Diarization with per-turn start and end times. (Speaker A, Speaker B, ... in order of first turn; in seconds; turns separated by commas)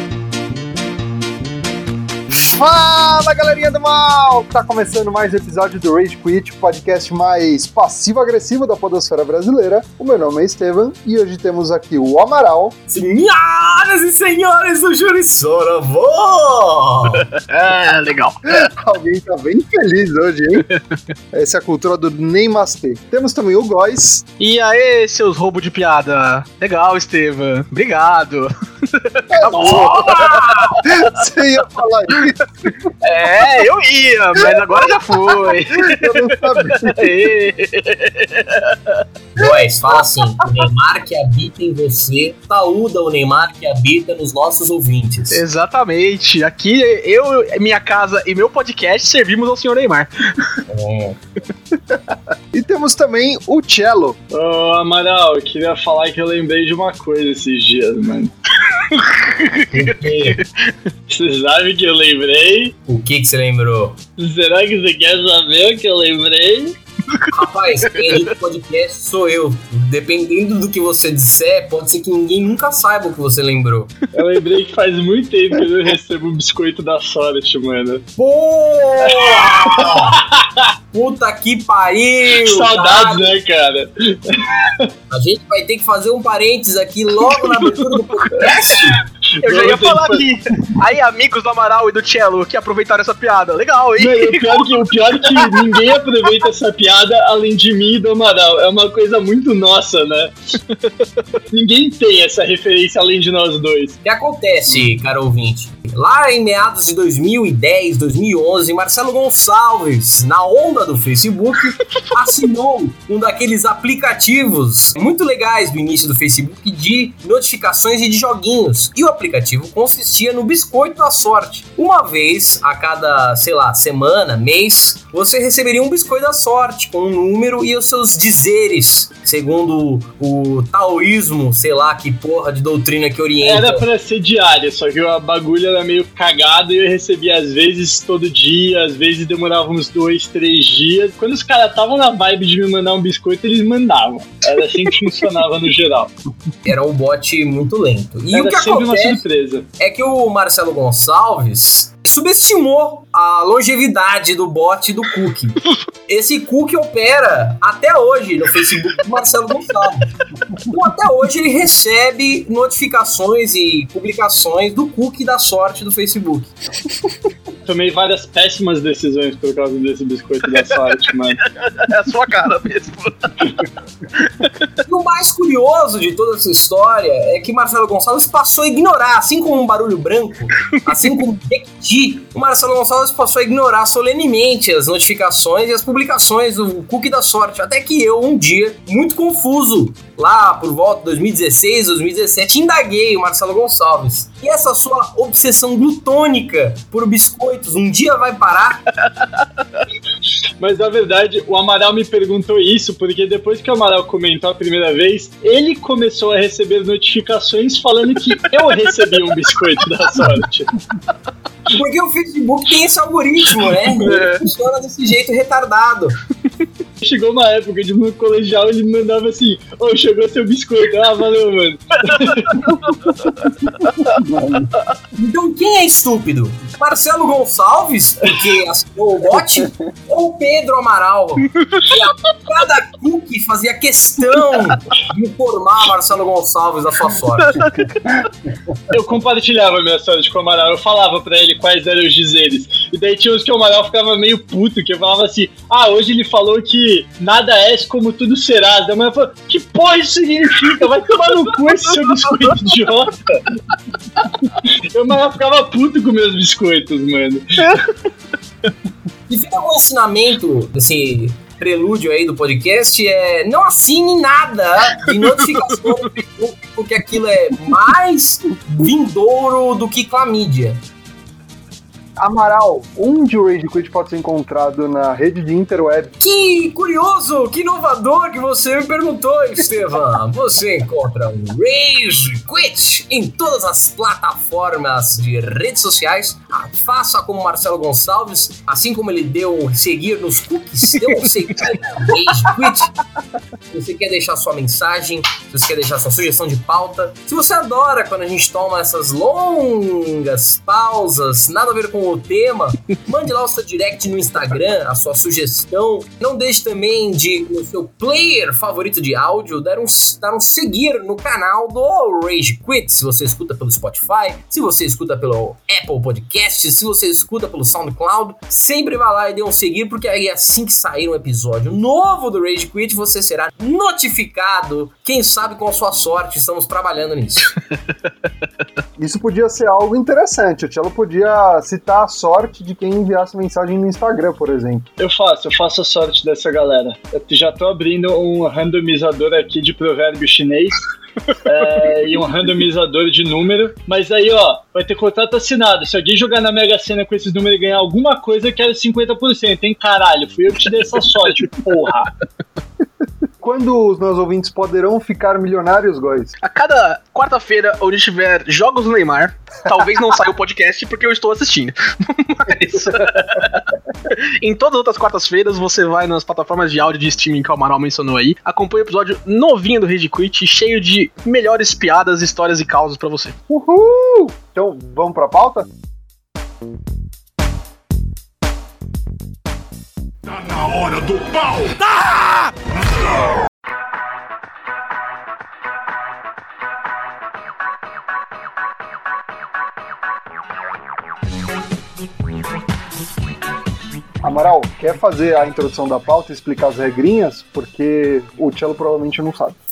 Speaker A: 2.3-12.8, Speaker B: 12.9-17.3, Speaker C: 17.3-18.6, Speaker A: 18.5-20.7, Speaker A: 21.3-24.2, Speaker C: 24.4-31.1, Speaker A: 29.3-32.8, Speaker B: 29.7-30.8, Speaker C: 33.0-39.0, Speaker A: 34.4-37.2, Speaker B: 39.4-45.4, Speaker C: 45.3-50.6, Speaker B: 50.7-51.2, Speaker A: 52.5-54.2, Speaker D: 54.3-58.3, Speaker C: 58.8-60.6, Speaker B: 59.7-60.4, Speaker D: 61.1-62.7, Speaker B: 62.9-64.0, Speaker D: 64.2-66.8, Speaker B: 67.3-73.9, Speaker C: 67.9-68.3, Speaker D: 74.1-78.1, Speaker B: 78.2-80.2, Speaker D: 79.1-80.7, Speaker B: 80.9-83.3, Speaker D: 82.3-84.9, Speaker B: 85.1-89.0, Speaker C: 87.5-87.8, Speaker D: 88.3-90.3, Speaker C: 89.4-95.9, Speaker D: 94.0-100.3, Speaker D: 101.5-104.0, Speaker B: 104.0-133.8, Speaker D: 133.4-146.1, Speaker B: 146.6-149.2, Speaker D: 148.3-149.7, Speaker B: 149.8-166.5, Speaker D: 167.6-171.4, Speaker C: 171.4-173.6, Speaker B: 174.8-198.8, Speaker D: 200.6-210.7, Speaker B: 211.7-216.2, Speaker C: 213.6-214.4, Speaker D: 217.0-222.8, Speaker A: 223.9-224.8, Speaker B: 225.1-237.7, Speaker C: 237.4-238.2, Speaker D: 238.9-253.5, Speaker D: 254.5-257.8, Speaker B: 259.3-270.8, Speaker A: 272.2-276.1, Speaker B: 276.2-292.9, Speaker B: 293.7-327.6, Speaker A: 329.0-334.9, Speaker D: 335.0-340.8, Speaker D: 341.4-352.1, Speaker A: 353.4-356.3, Speaker C: 356.4-373.4, Speaker A: 373.5-375.7, Speaker E: 380.3-382.3, Speaker A: 394.2-399.6